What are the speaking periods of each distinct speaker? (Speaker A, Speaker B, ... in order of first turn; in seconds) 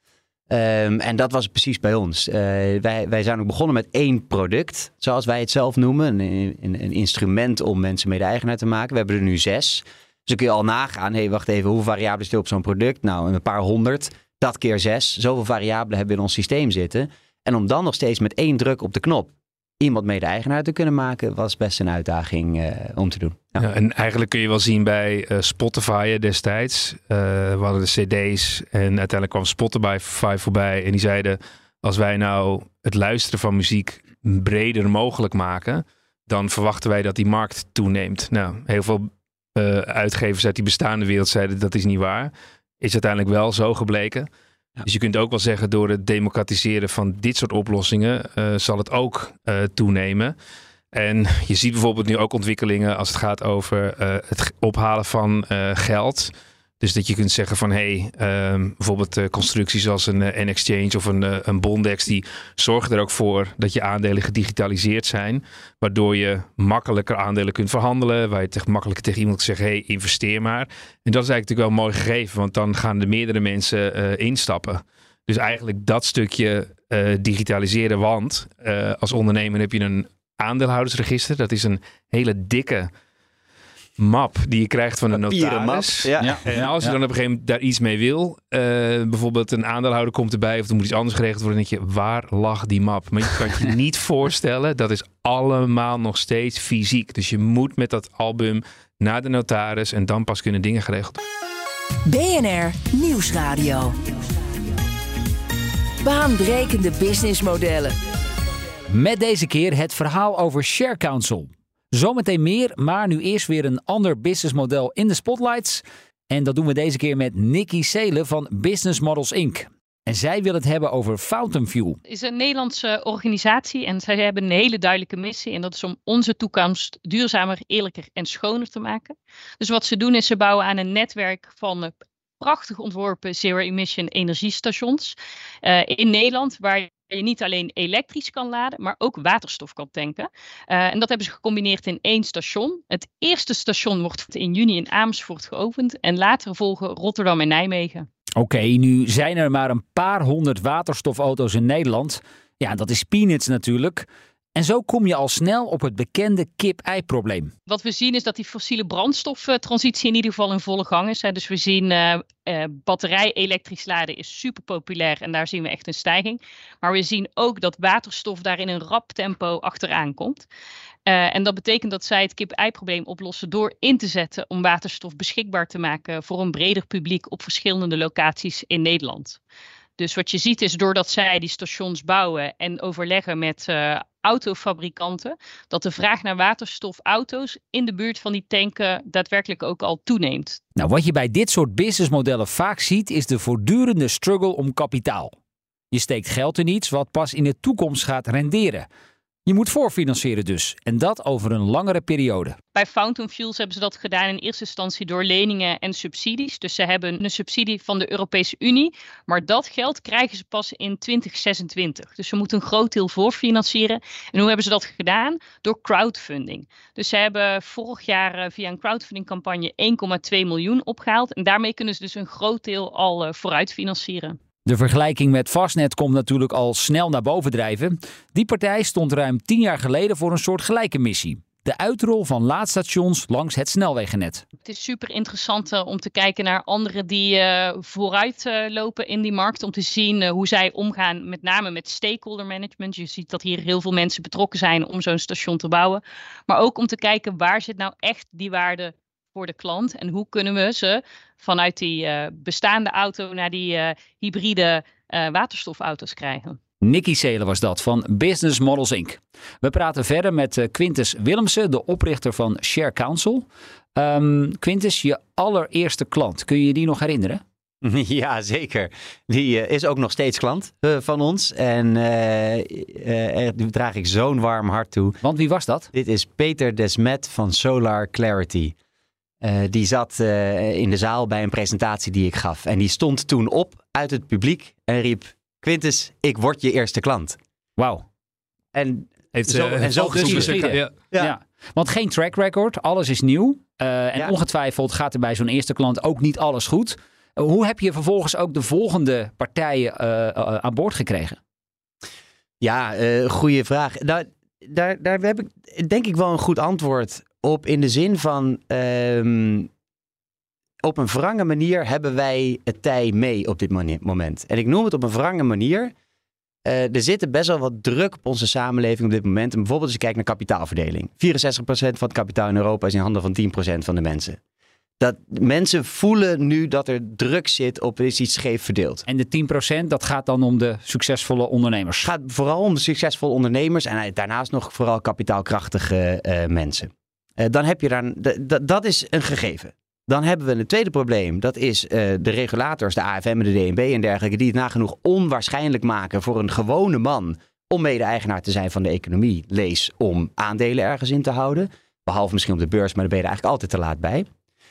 Speaker A: 0.5-23.6, 85.1-87.0, 267.8-275.2, 275.9-278.8, 279.4-287.4, 288.7-291.3, 302.6-309.7, 310.8-315.9, 316.6-324.4, 325.0-329.1, 332.0-354.3
Speaker B: 23.6-44.3, 44.8-50.3, 50.9-82.9, 84.0-101.2, 289.3-290.9
Speaker C: 86.2-86.7, 108.9-122.0, 148.4-157.5, 190.8-195.3, 195.9-198.9, 199.5-202.6, 224.7-234.4, 256.8-267.4, 275.2-275.9, 287.8-288.1, 290.1-301.4, 329.1-332.1
Speaker D: 102.1-104.0, 106.0-108.0
Speaker E: 122.1-148.1, 157.7-170.5, 171.1-179.4, 180.0-190.6, 202.8-224.4, 234.7-256.6